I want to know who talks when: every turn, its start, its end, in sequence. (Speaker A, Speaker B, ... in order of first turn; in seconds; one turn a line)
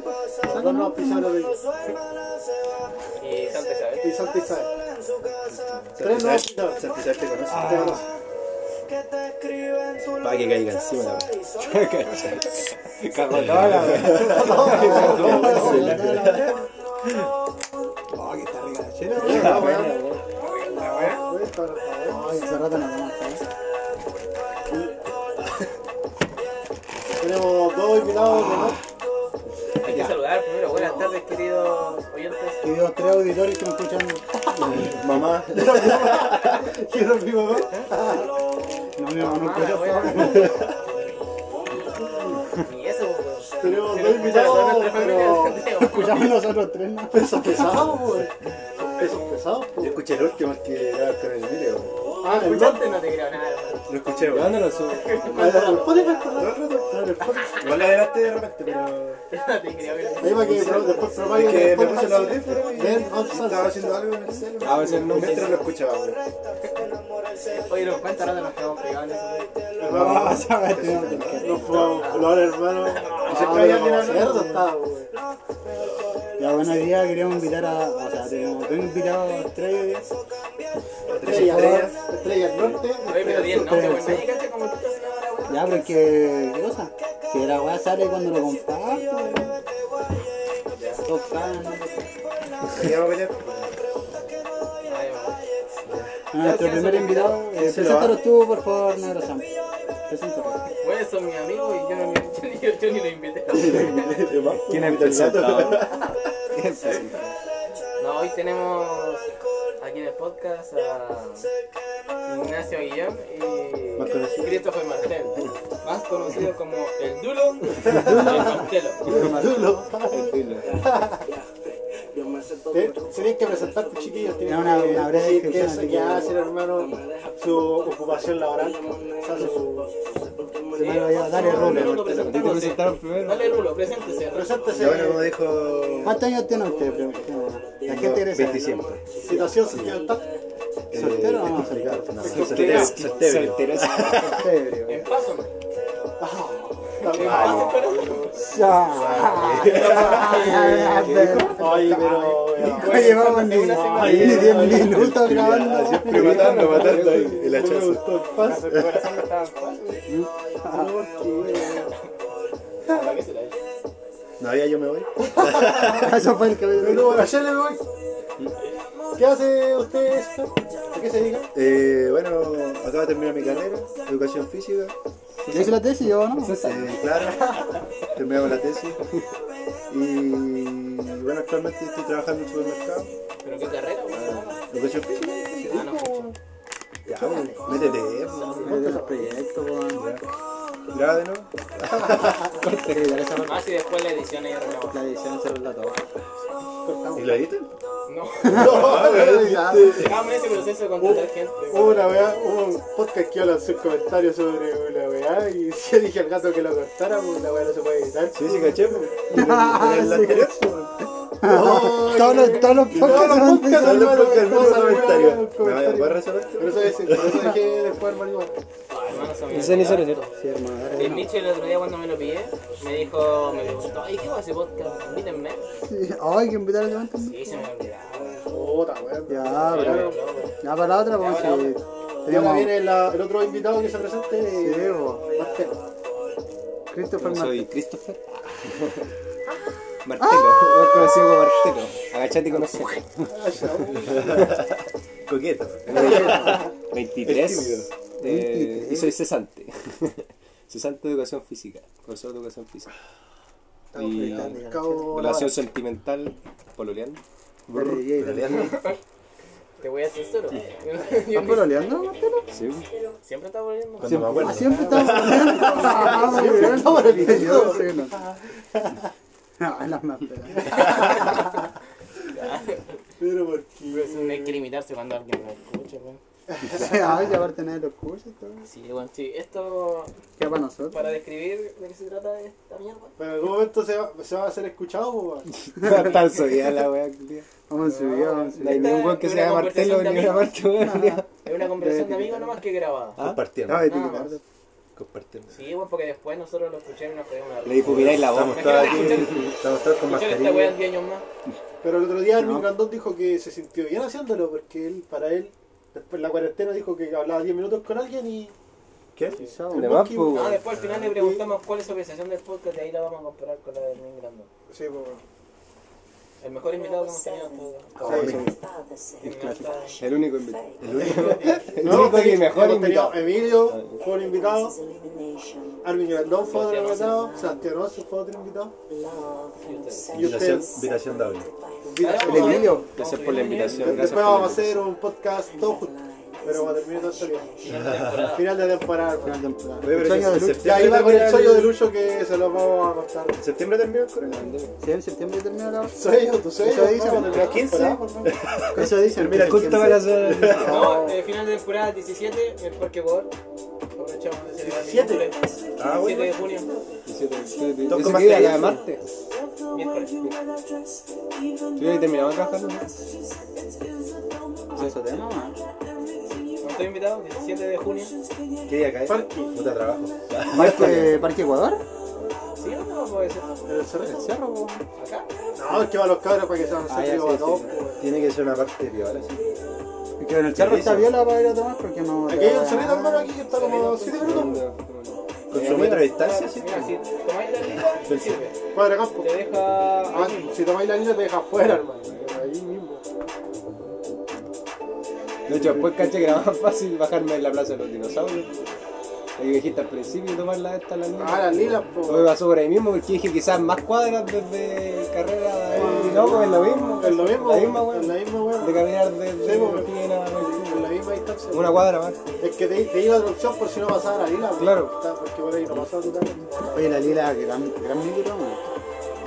Speaker A: 0.4-1.6
Speaker B: 0.4-1.3
Speaker C: 3.2-4.1
Speaker A: 4.0-4.7
Speaker D: 6.0-8.0
Speaker A: 6.0-6.9
Speaker B: 7.5-8.0
Speaker A: 7.6-8.0
Speaker D: 10.2-11.3
Speaker E: 11.6-15.8
Speaker D: 13.4-16.6
Speaker A: 14.2-16.1
Speaker B: 14.8-16.6
Speaker B: 18.1-19.9
Speaker A: 19.1-20.0
Speaker E: 19.2-20.2
Speaker C: 20.3-21.2
Speaker B: 20.8-21.1
Speaker A: 21.2-22.4
Speaker B: 22.1-23.4
Speaker A: 27.2-28.8
Speaker C: 29.8-32.7
Speaker E: 29.9-30.2
Speaker B: 32.6-34.8
Speaker D: 34.6-36.6
Speaker A: 35.5-38.3
Speaker B: 39.0-40.6
Speaker C: 39.1-40.7
Speaker D: 40.2-40.8
Speaker C: 42.6-46.4
Speaker A: 43.6-45.6
Speaker B: 45.8-47.7
Speaker A: 47.1-50.0
Speaker D: 49.8-51.9
Speaker A: 52.2-52.9
Speaker C: 52.2-53.9
Speaker D: 53.9-54.7
Speaker E: 54.3-55.8
Speaker C: 54.9-56.2
Speaker A: 55.3-57.6
Speaker D: 56.3-57.0
Speaker C: 57.3-57.9
Speaker D: 57.5-59.2
Speaker C: 59.3-61.2
Speaker A: 60.2-65.5
Speaker D: 60.3-66.2
Speaker E: 64.6-65.7
Speaker C: 67.5-69.5
Speaker A: 69.8-70.6
Speaker B: 69.8-72.2
Speaker D: 70.0-72.1
Speaker A: 71.4-75.1
Speaker C: 72.0-73.8
Speaker D: 73.1-74.4
Speaker B: 74.1-74.7
Speaker B: 76.4-80.1
Speaker D: 81.1-82.0
Speaker A: 81.2-83.7
Speaker B: 81.2-81.9
Speaker C: 83.0-85.9
Speaker B: 83.4-84.3
Speaker B: 85.5-89.6
Speaker C: 90.7-91.0
Speaker B: 91.0-92.1
Speaker D: 92.7-93.7
Speaker C: 94.8-95.4
Speaker D: 95.9-96.2
Speaker B: 96.3-99.5
Speaker C: 96.3-97.4
Speaker D: 97.5-98.2
Speaker B: 100.1-100.6
Speaker C: 100.8-104.4
Speaker D: 103.5-106.1
Speaker E: 104.7-105.9
Speaker E: 106.5-107.3
Speaker C: 108.0-109.2
Speaker C: 109.8-111.5
Speaker C: 112.2-119.2
Speaker D: 114.0-114.7
Speaker A: 117.8-121.2
Speaker B: 117.9-119.7
Speaker E: 120.1-120.7
Speaker A: 122.7-129.9
Speaker B: 124.4-126.3
Speaker B: 130.7-132.0
Speaker C: 130.9-134.6
Speaker D: 131.3-132.7
Speaker E: 132.1-133.6
Speaker A: 134.3-135.3
Speaker D: 134.7-136.2
Speaker B: 136.0-138.7
Speaker D: 137.8-140.0
Speaker A: 139.1-140.2
Speaker D: 140.9-144.4
Speaker B: 140.9-142.1
Speaker A: 142.2-143.1
Speaker E: 142.2-144.5
Speaker B: 144.2-145.1
Speaker C: 144.9-145.5
Speaker A: 146.2-147.9
Speaker E: 147.0-148.2
Speaker C: 147.0-148.7
Speaker D: 147.2-147.8
Speaker B: 148.3-156.1
Speaker D: 148.9-150.4
Speaker C: 149.6-151.4
Speaker A: 150.1-150.6
Speaker E: 150.9-151.9
Speaker A: 151.5-155.1
Speaker C: 152.6-155.0
Speaker D: 154.1-158.2
Speaker E: 156.0-157.4
Speaker A: 156.0-159.2
Speaker C: 158.3-160.0
Speaker D: 158.7-159.1
Speaker B: 160.1-160.9
Speaker A: 160.7-161.9
Speaker C: 161.4-162.1
Speaker C: 162.9-163.6
Speaker D: 164.4-166.1
Speaker A: 165.2-166.1
Speaker B: 165.8-167.3
Speaker A: 166.8-167.8
Speaker A: 169.1-171.5
Speaker D: 171.5-174.9
Speaker E: 175.4-176.9
Speaker B: 175.5-176.6
Speaker D: 176.6-179.0
Speaker D: 179.9-183.1
Speaker C: 183.4-184.7
Speaker E: 184.1-184.5
Speaker D: 184.7-186.3
Speaker C: 185.6-186.3
Speaker D: 187.1-188.9
Speaker C: 187.2-188.6
Speaker A: 188.5-189.3
Speaker B: 188.6-190.0
Speaker D: 189.9-190.2
Speaker D: 190.9-192.6
Speaker E: 192.5-193.1
Speaker B: 192.9-193.6
Speaker C: 193.3-195.0
Speaker B: 194.9-196.2
Speaker A: 196.8-197.5
Speaker D: 197.1-197.7
Speaker C: 198.1-198.9
Speaker B: 198.5-200.1
Speaker A: 198.5-200.2
Speaker D: 198.5-200.1
Speaker C: 199.8-202.3
Speaker A: 201.0-209.1
Speaker D: 208.3-210.9
Speaker B: 209.3-210.6
Speaker B: 211.4-214.2
Speaker A: 211.4-218.6
Speaker E: 212.1-212.7
Speaker D: 212.8-217.5
Speaker C: 218.9-220.3
Speaker E: 219.5-220.2
Speaker B: 220.4-221.3
Speaker C: 220.9-225.6
Speaker B: 225.8-227.6
Speaker C: 227.2-228.4
Speaker A: 228.5-230.2
Speaker B: 229.3-232.8
Speaker C: 229.7-230.5
Speaker C: 231.1-231.8
Speaker A: 232.3-235.8
Speaker B: 234.4-235.3
Speaker B: 236.9-237.7
Speaker E: 237.2-239.0
Speaker E: 240.0-243.3
Speaker B: 240.2-240.6
Speaker B: 242.6-242.8
Speaker A: 243.3-244.6
Speaker D: 244.1-246.7
Speaker E: 245.9-252.9
Speaker B: 245.9-246.5
Speaker D: 247.2-247.9
Speaker B: 248.2-249.2
Speaker A: 253.9-255.6
Speaker E: 253.9-254.6
Speaker B: 254.0-255.1
Speaker E: 255.1-257.2
Speaker D: 257.7-258.9
Speaker B: 257.7-258.7
Speaker C: 258.4-259.0
Speaker C: 259.8-261.8
Speaker B: 261.3-262.5
Speaker E: 262.5-262.9
Speaker C: 263.2-264.5
Speaker D: 264.0-265.6
Speaker B: 264.0-268.2
Speaker A: 264.4-268.9
Speaker B: 269.6-271.4
Speaker C: 272.3-272.8
Speaker A: 273.2-274.6
Speaker C: 273.9-276.2
Speaker A: 276.5-277.3
Speaker B: 276.7-278.7
Speaker C: 278.6-280.1
Speaker B: 280.4-281.1
Speaker C: 280.9-283.1
Speaker A: 283.2-285.5
Speaker E: 285.6-287.4
Speaker B: 285.8-286.1
Speaker B: 287.7-289.1
Speaker C: 287.8-290.5
Speaker E: 288.6-291.3
Speaker B: 290.8-291.2
Speaker C: 291.4-293.2
Speaker B: 291.8-292.6
Speaker D: 293.2-294.0
Speaker B: 293.7-294.4
Speaker C: 293.8-294.3
Speaker D: 294.9-295.6
Speaker C: 295.5-301.2
Speaker E: 297.6-299.3
Speaker D: 297.8-300.8
Speaker A: 301.8-308.5
Speaker B: 302.3-302.7
Speaker B: 309.3-310.6
Speaker E: 309.7-310.6
Speaker C: 310.3-314.5
Speaker A: 310.9-311.4
Speaker A: 314.7-315.2
Speaker C: 316.4-318.0
Speaker D: 318.0-318.5
Speaker B: 318.0-318.5
Speaker A: 318.0-318.4
Speaker C: 319.2-320.0
Speaker B: 319.2-319.6
Speaker E: 320.0-324.0
Speaker D: 320.8-322.1
Speaker C: 321.0-321.7
Speaker A: 321.1-324.8
Speaker A: 325.8-328.9
Speaker C: 326.5-327.3
Speaker C: 329.6-330.1
Speaker A: 330.1-330.8
Speaker D: 330.1-331.5
Speaker A: 331.8-332.8
Speaker C: 332.0-334.1
Speaker B: 332.2-332.9
Speaker E: 332.9-334.8
Speaker A: 333.8-337.5
Speaker C: 337.6-338.6
Speaker D: 337.7-338.3
Speaker A: 338.2-339.4
Speaker B: 339.2-340.8
Speaker D: 339.8-341.8
Speaker A: 340.6-343.4
Speaker D: 343.4-344.5
Speaker E: 344.2-344.7
Speaker B: 344.8-346.0
Speaker A: 345.9-348.4
Speaker B: 346.6-347.7
Speaker D: 347.1-350.9
Speaker B: 348.7-351.2
Speaker E: 349.2-350.9
Speaker C: 350.6-353.3
Speaker C: 353.9-356.7
Speaker A: 354.6-355.3
Speaker D: 355.8-356.4
Speaker E: 357.1-359.0
Speaker D: 357.9-358.8
Speaker C: 359.7-360.1
Speaker E: 361.8-362.9
Speaker B: 364.7-365.6
Speaker C: 366.6-368.1
Speaker D: 368.6-370.9
Speaker A: 369.0-369.6
Speaker B: 370.5-371.8
Speaker E: 370.5-371.3
Speaker C: 372.5-373.5
Speaker A: 373.6-374.3
Speaker B: 374.0-374.8
Speaker C: 375.0-375.3
Speaker A: 375.6-378.1
Speaker B: 376.9-377.8
Speaker D: 378.0-379.6
Speaker B: 380.2-383.3
Speaker D: 380.5-381.2
Speaker A: 382.3-384.6
Speaker C: 383.5-384.3
Speaker E: 384.2-386.0
Speaker D: 384.2-384.6
Speaker D: 385.5-386.9
Speaker C: 385.5-388.6
Speaker D: 387.9-388.4
Speaker A: 388.7-389.3
Speaker C: 389.2-390.6
Speaker A: 390.1-393.0
Speaker E: 392.1-392.4
Speaker E: 395.5-398.8
Speaker B: 395.5-396.5
Speaker E: 399.4-412.2
Speaker A: 401.2-402.3
Speaker A: 405.7-417.0
Speaker B: 405.7-407.5
Speaker E: 414.6-414.9
Speaker C: 416.5-417.1
Speaker B: 416.7-418.7